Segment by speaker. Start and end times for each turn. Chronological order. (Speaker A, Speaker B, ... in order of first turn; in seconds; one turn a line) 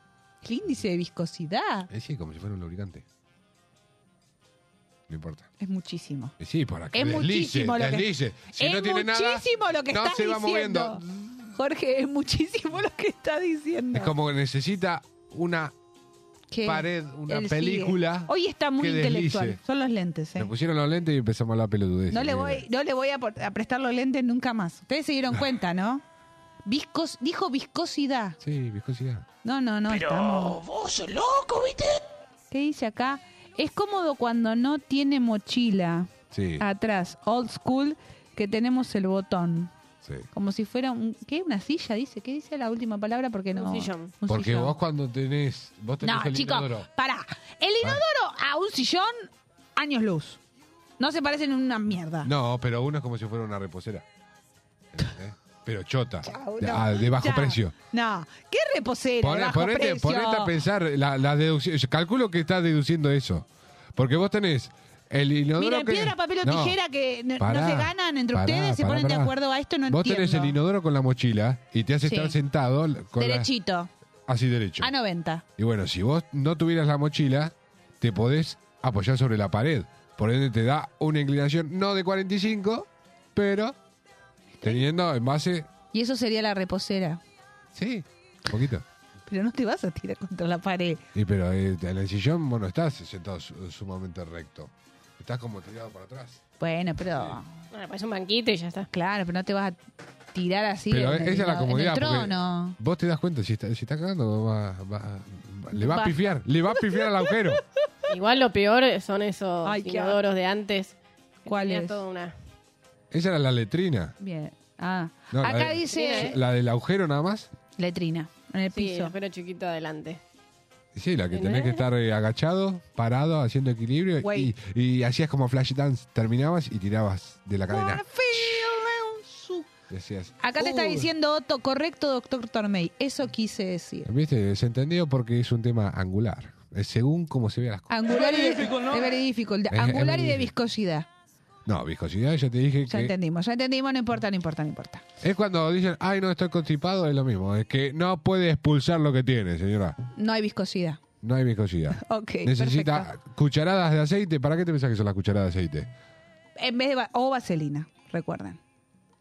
Speaker A: 0.4-1.9
Speaker B: 1.9-3.0
Speaker B: 5.1-5.5
Speaker A: 5.6-6.3
Speaker B: 6.4-11.4
Speaker A: 6.9-11.0
Speaker A: 11.5-14.1
Speaker B: 13.9-15.7
Speaker A: 16.5-20.5
Speaker B: 16.6-19.6
Speaker B: 20.4-22.6
Speaker A: 22.1-26.0
Speaker A: 26.6-28.4
Speaker B: 28.4-29.3
Speaker A: 29.4-30.6
Speaker A: 32.5-39.7
Speaker B: 36.3-36.6
Speaker B: 40.0-40.3
Speaker A: 40.3-44.8
Speaker C: 43.5-44.1
Speaker B: 44.3-46.9
Speaker A: 46.0-50.4
Speaker A: 51.0-52.3
Speaker B: 52.2-54.0
Speaker B: 54.9-57.7
Speaker A: 56.2-60.5
Speaker B: 59.2-66.8
Speaker A: 65.6-70.5
Speaker B: 67.4-69.3
Speaker B: 69.9-73.5
Speaker A: 72.0-72.4
Speaker A: 73.2-73.9
Speaker B: 74.3-74.9
Speaker A: 74.8-75.4
Speaker B: 75.6-83.8
Speaker B: 84.6-85.7
Speaker A: 85.9-87.2
Speaker B: 87.7-88.8
Speaker A: 89.3-91.0
Speaker B: 91.1-96.4
Speaker A: 96.6-97.5
Speaker C: 97.7-98.9
Speaker A: 98.9-99.8
Speaker A: 100.3-102.8
Speaker B: 100.9-107.6
Speaker A: 105.7-106.2
Speaker C: 108.1-112.3
Speaker A: 109.7-110.2
Speaker A: 111.5-112.0
Speaker B: 113.1-114.2
Speaker A: 114.2-116.4
Speaker B: 115.3-117.5
Speaker C: 115.9-116.3
Speaker A: 117.8-119.1
Speaker C: 118.7-120.2
Speaker B: 120.9-128.8
Speaker C: 121.3-121.8
Speaker A: 124.2-124.5
Speaker A: 127.7-129.7
Speaker B: 129.9-131.1
Speaker A: 130.4-134.1
Speaker B: 134.1-138.6
Speaker A: 137.9-141.1
Speaker B: 139.7-140.5
Speaker B: 141.7-143.1
Speaker A: 142.9-145.0
Speaker B: 145.2-150.0
Speaker A: 150.2-151.0
Speaker B: 151.2-155.9
Speaker A: 152.0-153.1
Speaker A: 156.6-158.6